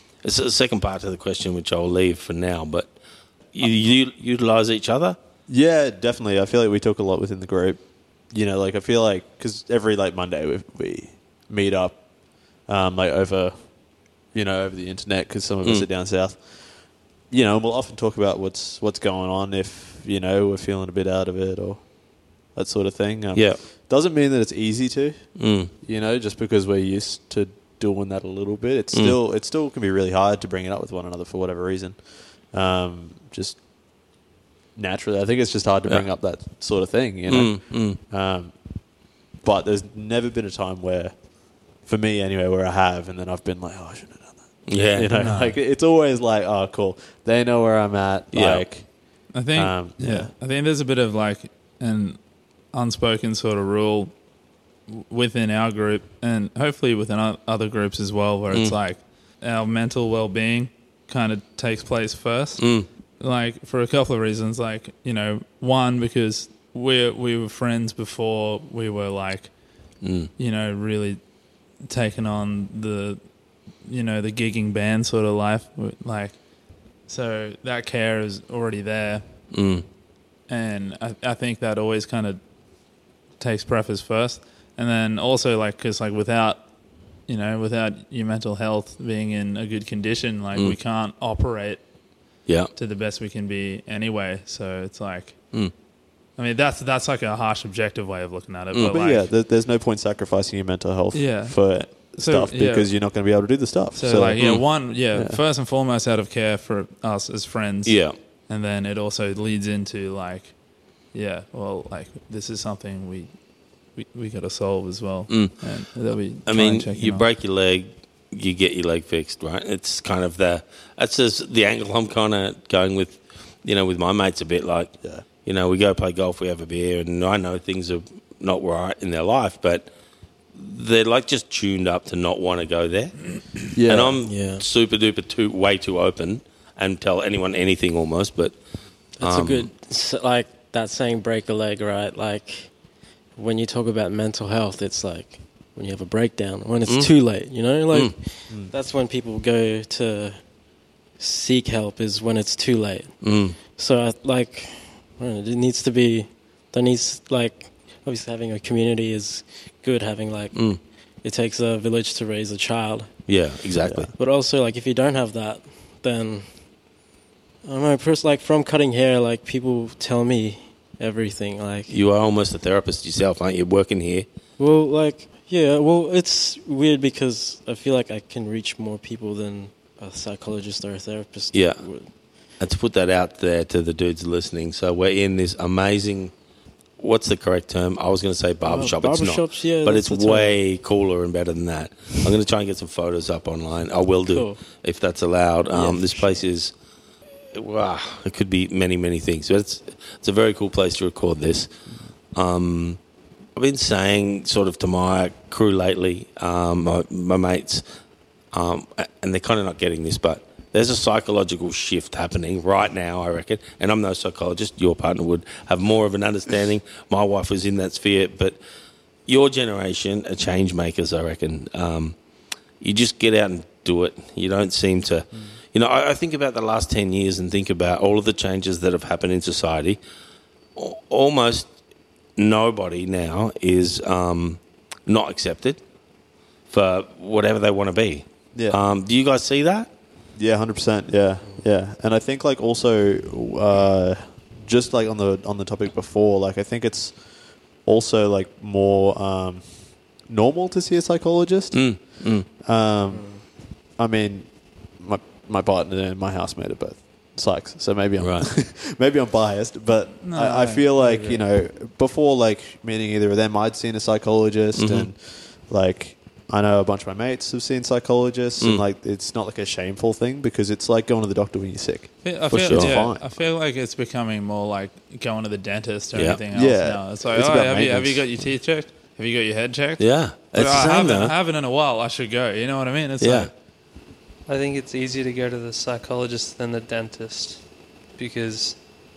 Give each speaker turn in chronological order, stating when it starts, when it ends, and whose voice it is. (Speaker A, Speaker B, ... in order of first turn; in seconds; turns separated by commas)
Speaker A: 0.2-2.9, Speaker A: 3.5-5.2, Speaker B: 5.5-7.8, Speaker B: 8.3-12.0, Speaker B: 12.7-13.7, Speaker B: 14.3-16.5, Speaker B: 17.3-21.9, Speaker B: 22.5-33.6, Speaker A: 23.3-23.6, Speaker A: 25.4-25.7, Speaker B: 34.8-38.5, Speaker A: 37.3-38.0, Speaker B: 39.4-41.1, Speaker B: 41.8-48.9, Speaker A: 44.7-45.1, Speaker C: 45.1-45.6, Speaker A: 48.3-48.6, Speaker C: 49.3-52.2, Speaker B: 49.5-50.3, Speaker C: 52.7-54.1, Speaker C: 54.9-62.6, Speaker A: 62.6-62.9, Speaker C: 63.2-69.5, Speaker A: 70.0-70.3, Speaker C: 70.4-71.2, Speaker C: 71.8-73.2, Speaker C: 73.8-76.3, Speaker C: 77.1-79.2, Speaker A: 79.5-79.8, Speaker C: 80.5-82.4, Speaker C: 83.4-86.6, Speaker C: 87.3-91.8, Speaker C: 92.7-95.4, Speaker C: 96.4-99.3, Speaker B: 98.8-104.4, Speaker C: 101.1-102.9, Speaker C: 103.9-110.5, Speaker B: 105.1-105.4, Speaker A: 107.8-108.1, Speaker C: 111.1-113.3, Speaker C: 114.0-117.2, Speaker A: 115.3-115.5, Speaker A: 116.5-129.9, Speaker A: 130.5-138.6, Speaker B: 133.7-134.2, Speaker D: 134.2-134.6, Speaker D: 139.2-142.7, Speaker A: 139.2-139.7, Speaker D: 143.3-150.4, Speaker A: 146.8-147.1, Speaker D: 151.2-160.7, Speaker A: 153.2-153.6, Speaker A: 160.5-160.8, Speaker D: 161.2-163.1, Speaker A: 163.3-164.1, Speaker D: 164.2-166.6, Speaker D: 167.6-171.9, Speaker A: 171.9-174.2, Speaker D: 174.6-182.1, Speaker A: 181.5-181.9, Speaker A: 182.6-186.3, Speaker A: 187.0-196.7, Speaker D: 188.6-190.6, Speaker D: 194.3-194.6, Speaker D: 195.7-196.4, Speaker A: 197.5-201.7, Speaker A: 202.3-203.0, Speaker A: 203.6-207.8, Speaker A: 208.5-218.6, Speaker A: 219.2-222.2, Speaker A: 222.8-230.0, Speaker A: 230.8-231.7, Speaker A: 232.4-235.8, Speaker A: 236.7-239.9, Speaker B: 240.4-247.2, Speaker B: 247.8-273.4, Speaker A: 251.7-252.5, Speaker A: 258.2-258.5, Speaker C: 260.2-261.4, Speaker A: 264.8-265.1, Speaker C: 272.2-283.5, Speaker A: 272.5-272.9, Speaker A: 276.1-276.4, Speaker B: 276.5-278.2, Speaker A: 280.0-281.3, Speaker A: 283.2-283.5, Speaker E: 284.5-288.9